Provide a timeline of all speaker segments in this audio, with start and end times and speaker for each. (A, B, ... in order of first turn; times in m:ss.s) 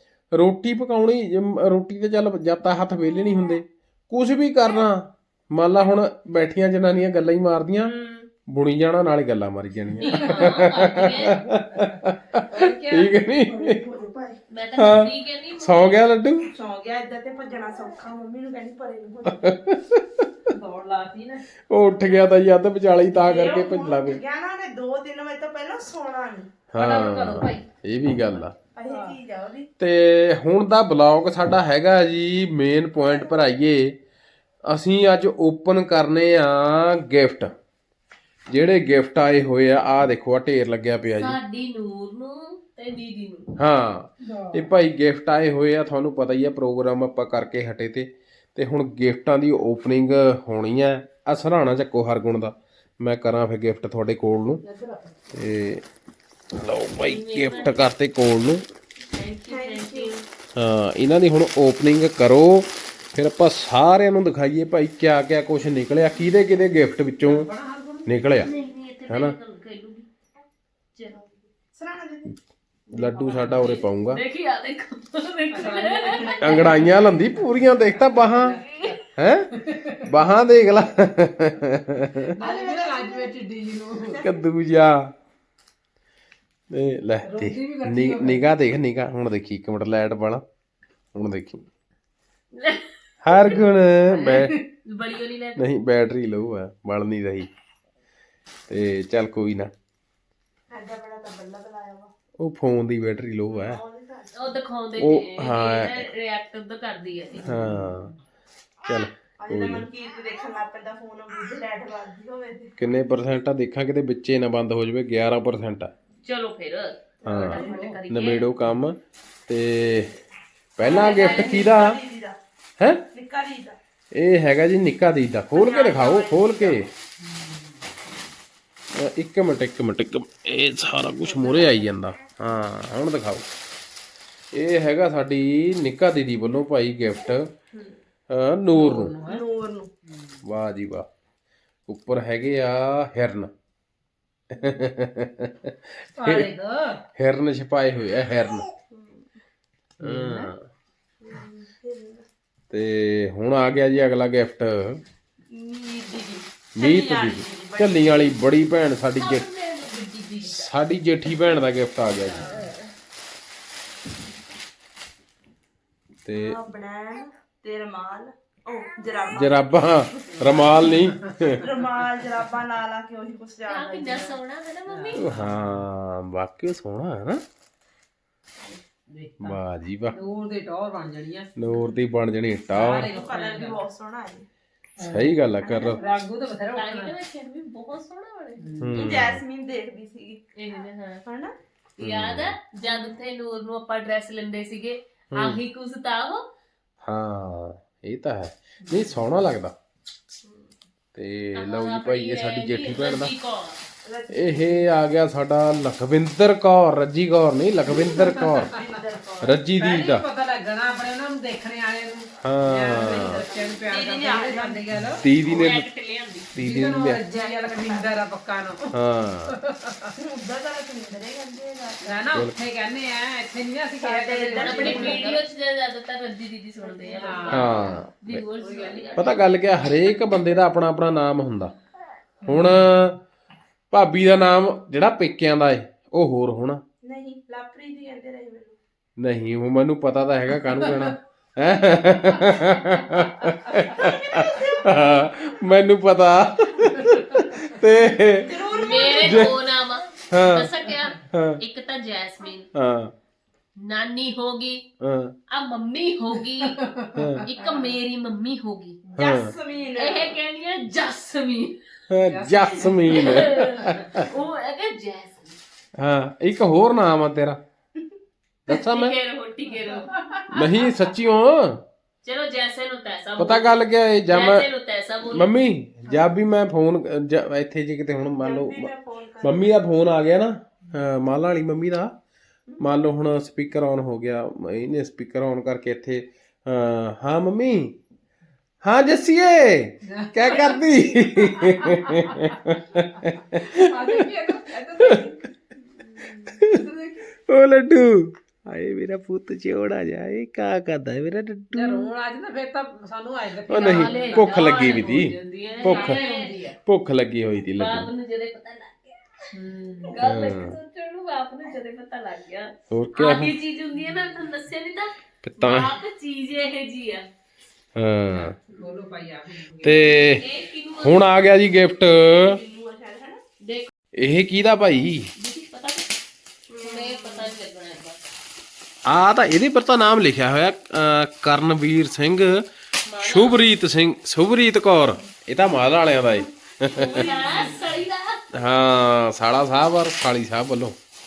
0:00.3-0:07.9 A
0:07.9-0:08.3 B
0:08.5-0:13.9 A
0:10.0-0:11.4 B
0:12.5-0:13.2 C
0:13.5-0:14.4 D
0:14.5-0:16.1 B
0:14.8-0:16.5 A
0:16.5-0:19.5 D
0:19.3-0:20.5 A
0:20.5-0:21.4 C
0:21.7-0:24.2 A
0:23.2-0:26.5 D
0:26.7-0:28.6 A
0:26.8-0:27.7 C
0:28.7-0:29.7 D
0:28.8-0:29.2 C
0:29.8-0:34.0 A
0:34.7-0:37.5 A
0:38.5-0:41.4 A
0:41.1-0:43.5 B
0:43.6-0:54.6 A
0:44.2-0:44.7 C
0:54.6-0:55.1 C
0:55.3-0:55.8 A
0:56.5-0:58.6 A
0:57.0-0:57.9 B
0:59.1-1:00.2 B
0:59.5-1:00.1 D
1:00.6-1:07.5 A
1:07.2-1:08.3 C
1:08.0-1:08.5 A
1:08.4-1:10.1 B
1:09.1-1:09.4 A
1:11.0-1:11.2 B
1:11.1-1:12.4 D
1:12.9-1:14.2 A
1:13.0-1:13.7 C
1:13.4-1:17.0 B
1:15.5-1:17.3 C
1:16.1-1:16.7 D
1:16.4-1:18.6 A
1:18.1-1:19.0 C
1:19.2-1:19.5 A
1:19.5-1:20.1 C
1:20.0-1:22.4 A
1:22.4-1:24.2 C
1:22.4-1:23.3 D
1:24.1-1:24.4 D
1:24.2-1:25.1 A
1:26.7-1:30.4 A
1:27.2-1:28.4 C
1:31.1-1:31.7 A
1:32.5-1:33.6 B
1:33.2-1:34.6 A
1:34.1-1:34.6 C
1:34.8-1:35.6 B
1:35.6-1:37.5 A
1:38.7-1:39.7 A
1:40.7-1:42.1 D
1:42.4-1:43.8 A
1:43.5-1:44.5 D
1:44.3-1:47.5 B
1:45.0-1:46.1 A
1:47.4-1:48.1 C
1:47.4-1:48.1 A
1:48.8-1:49.9 A
1:49.4-1:52.8 D
1:52.8-1:55.9 A
1:56.2-1:58.5 B
1:57.2-1:58.0 D
1:57.2-2:00.1 A
1:57.6-1:58.0 C
2:00.8-2:02.0 A
2:00.8-2:02.4 D
2:00.8-2:01.7 B
2:02.8-2:03.0 A
2:03.1-2:03.8 D
2:04.1-2:06.9 A
2:05.5-2:06.9 D
2:07.2-2:07.8 C
2:09.0-2:13.5 A
2:11.2-2:11.9 D
2:14.5-2:17.5 A
2:18.3-2:19.1 A
2:18.7-2:19.4 C
2:19.3-2:19.9 D
2:20.1-2:20.4 C
2:20.4-2:21.1 A
2:21.9-2:23.5 A
2:24.5-2:26.5 A
2:26.2-2:27.0 C
2:27.2-2:28.7 A
2:28.9-2:29.3 D
2:30.0-2:30.6 A
2:30.0-2:30.5 C
2:31.2-2:32.3 D
2:32.7-2:35.0 A
2:35.5-2:38.4 D
2:36.8-2:39.5 A
2:39.2-2:40.7 B
2:40.4-2:42.6 A
2:42.3-2:42.7 C
2:42.5-2:42.9 B
2:46.2-2:46.6 A
2:46.3-2:54.4 D
2:49.3-2:51.6 A
2:50.5-2:51.3 C
2:53.7-2:55.2 B
2:54.9-2:55.8 C
2:55.2-2:57.4 A
2:59.1-2:59.6 C
2:59.4-3:00.2 A
3:00.1-3:01.5 C
3:01.6-3:03.1 A
3:02.7-3:03.8 C
3:02.9-3:04.5 D
3:05.0-3:05.3 C
3:05.0-3:06.0 A
3:05.9-3:07.1 C
3:06.8-3:08.8 B
3:08.6-3:09.1 C
3:08.8-3:09.4 A
3:09.0-3:10.5 D
3:10.6-3:11.2 B
3:11.2-3:11.6 D
3:12.0-3:16.5 B
3:12.0-3:12.6 A
3:15.3-3:15.6 A
3:17.0-3:19.7 A
3:18.8-3:19.2 C
3:20.4-3:20.7 B
3:21.2-3:23.3 A
3:21.6-3:23.8 B
3:24.0-3:24.9 D
3:24.3-3:28.7 A
3:28.0-3:28.8 C
3:28.0-3:29.6 D
3:29.4-3:30.2 A
3:29.8-3:35.2 C
3:32.4-3:33.4 A
3:32.9-3:35.8 D
3:35.0-3:35.9 A
3:35.4-3:36.5 B
3:36.5-3:37.2 A
3:36.6-3:39.0 C
3:37.2-3:38.1 D
3:38.9-3:39.5 A
3:39.5-3:40.1 C
3:40.2-3:42.2 D
3:42.0-3:45.4 C
3:44.0-3:45.4 D
3:44.5-3:49.6 B
3:46.8-3:47.9 D
3:47.2-3:47.8 C
3:47.5-3:48.4 A
3:48.5-3:49.3 C
3:49.2-3:51.7 A
3:52.4-3:52.9 C
3:52.4-3:53.2 A
3:53.9-3:56.8 A
3:57.0-3:58.8 D
3:59.2-4:09.6 A
4:03.9-4:05.6 D
4:08.4-4:09.5 D
4:08.7-4:12.7 B
4:10.3-4:10.7 A
4:11.3-4:11.6 A
4:12.7-4:13.1 A
4:13.8-4:14.8 B
4:15.0-4:15.4 A
4:15.5-4:16.8 B
4:16.6-4:17.9 C
4:17.1-4:17.5 A
4:17.4-4:19.0 B
4:19.0-4:20.4 D
4:19.2-4:19.5 A
4:20.0-4:21.8 B
4:22.1-4:24.3 A
4:22.2-4:23.5 C
4:23.0-4:25.6 B
4:26.0-4:27.6 A
4:28.7-4:29.2 A
4:28.7-4:31.1 B
4:29.9-4:30.5 C
4:30.5-4:31.8 A
4:32.2-4:35.5 B
4:33.4-4:34.7 A
4:35.3-4:38.9 A
4:38.3-4:39.8 D
4:39.4-4:42.1 A
4:42.8-4:48.0 A
4:48.8-4:55.3 A
4:50.0-4:52.4 C
4:53.6-4:55.4 C
4:56.5-4:56.8 A
4:56.5-4:57.3 C
4:57.4-5:02.1 A
5:01.7-5:05.0 C
5:03.7-5:06.2 A
5:03.7-5:06.5 B
5:05.7-5:06.8 C
5:06.9-5:08.1 A
5:07.8-5:09.3 B
5:09.5-5:10.2 C
5:10.0-5:17.3 B
5:10.2-5:10.8 A
5:12.9-5:13.5 A
5:15.4-5:16.0 A
5:18.0-5:18.6 A
5:18.7-5:20.2 C
5:19.8-5:20.4 A
5:20.0-5:21.5 B
5:21.0-5:22.6 A
5:22.3-5:23.4 D
5:23.6-5:23.9 B
5:24.2-5:25.3 A
5:25.3-5:26.1 B
5:26.7-5:28.2 B
5:26.8-5:27.5 D
5:29.0-5:32.6 A
5:33.1-5:33.6 B
5:33.2-5:37.3 A
5:36.2-5:36.5 D
5:36.8-5:38.6 B
5:37.0-5:37.8 D
5:37.2-5:37.8 C
5:38.5-5:41.0 A